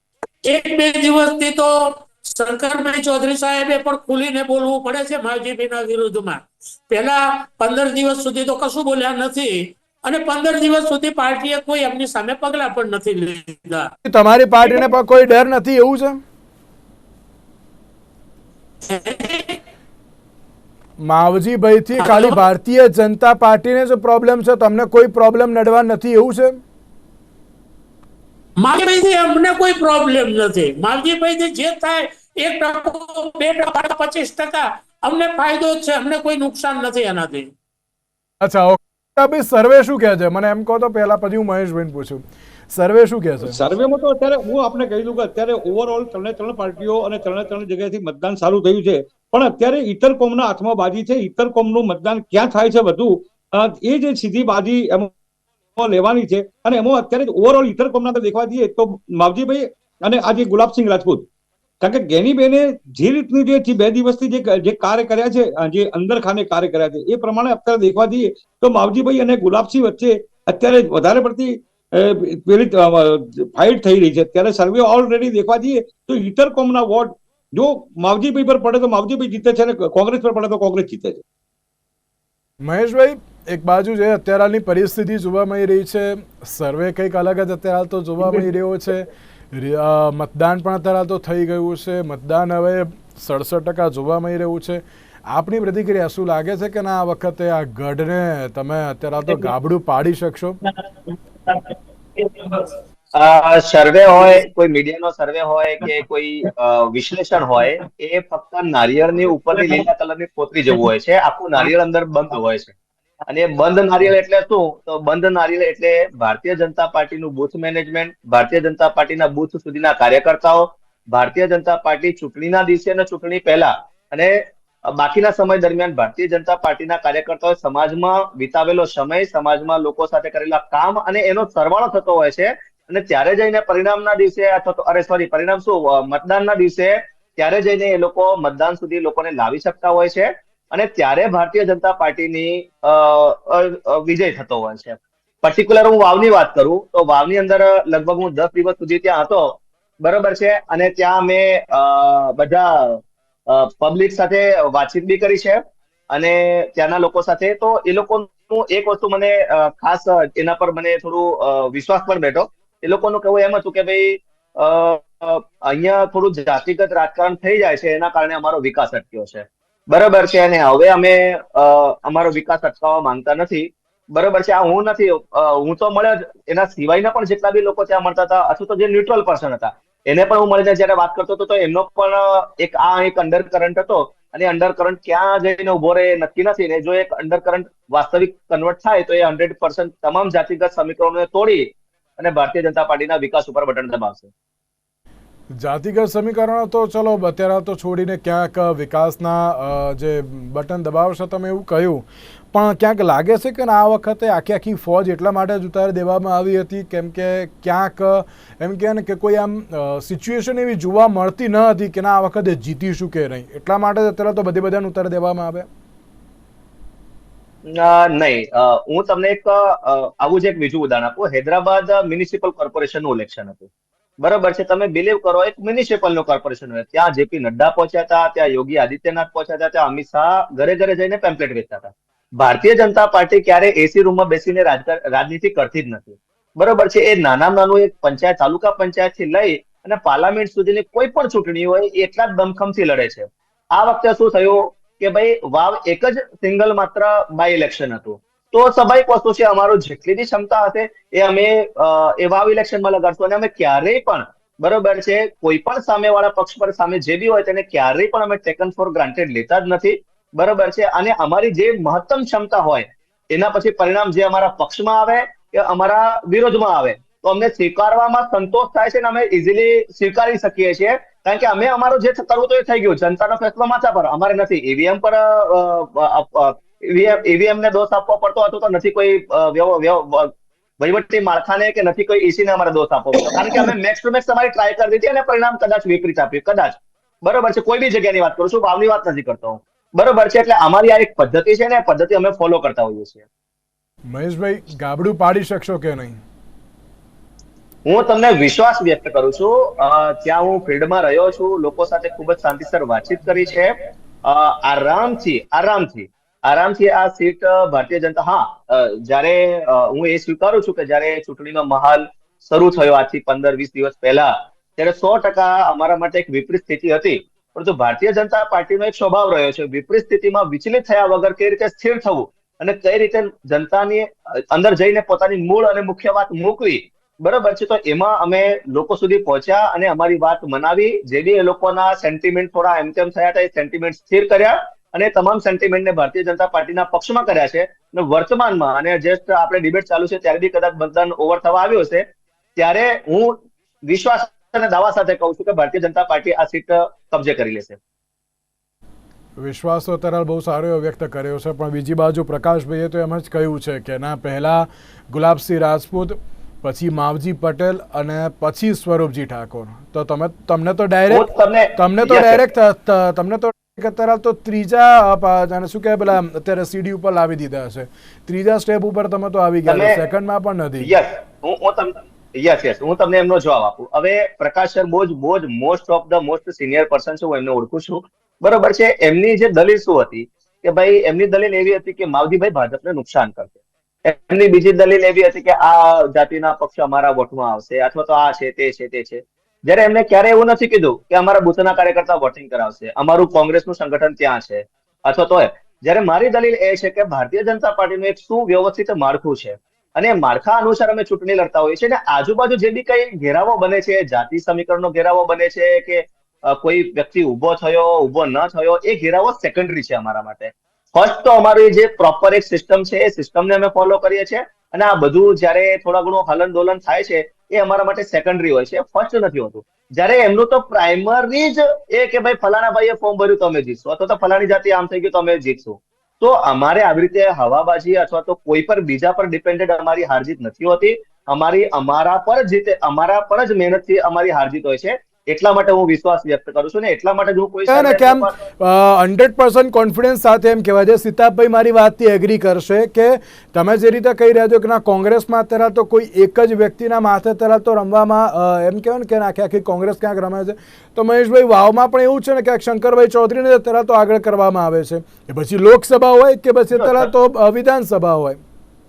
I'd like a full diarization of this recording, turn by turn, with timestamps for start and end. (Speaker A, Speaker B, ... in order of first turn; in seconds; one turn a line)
Speaker A: 0.4-13.9
Speaker B: 14.0-16.2
Speaker A: 18.9-19.6
Speaker B: 21.0-26.6
Speaker A: 22.0-22.4
Speaker A: 28.6-37.5
Speaker B: 38.4-43.6
Speaker C: 43.5-55.1
Speaker C: 55.8-61.3
Speaker C: 61.8-81.2
Speaker B: 82.6-100.6
Speaker D: 103.1-112.7
Speaker D: 113.3-194.3
Speaker B: 195.6-215.7
Speaker D: 217.7-223.7
Speaker D: 224.2-293.2
Speaker B: 294.1-296.2
Speaker D: 297.9-342.0
Speaker D: 342.6-347.8
Speaker B: 349.4-361.2
Speaker D: 361.1-362.4
Speaker B: 361.8-370.9
Speaker D: 369.6-370.0
Speaker D: 370.8-438.3
Speaker B: 437.7-458.4
Speaker D: 456.8-457.1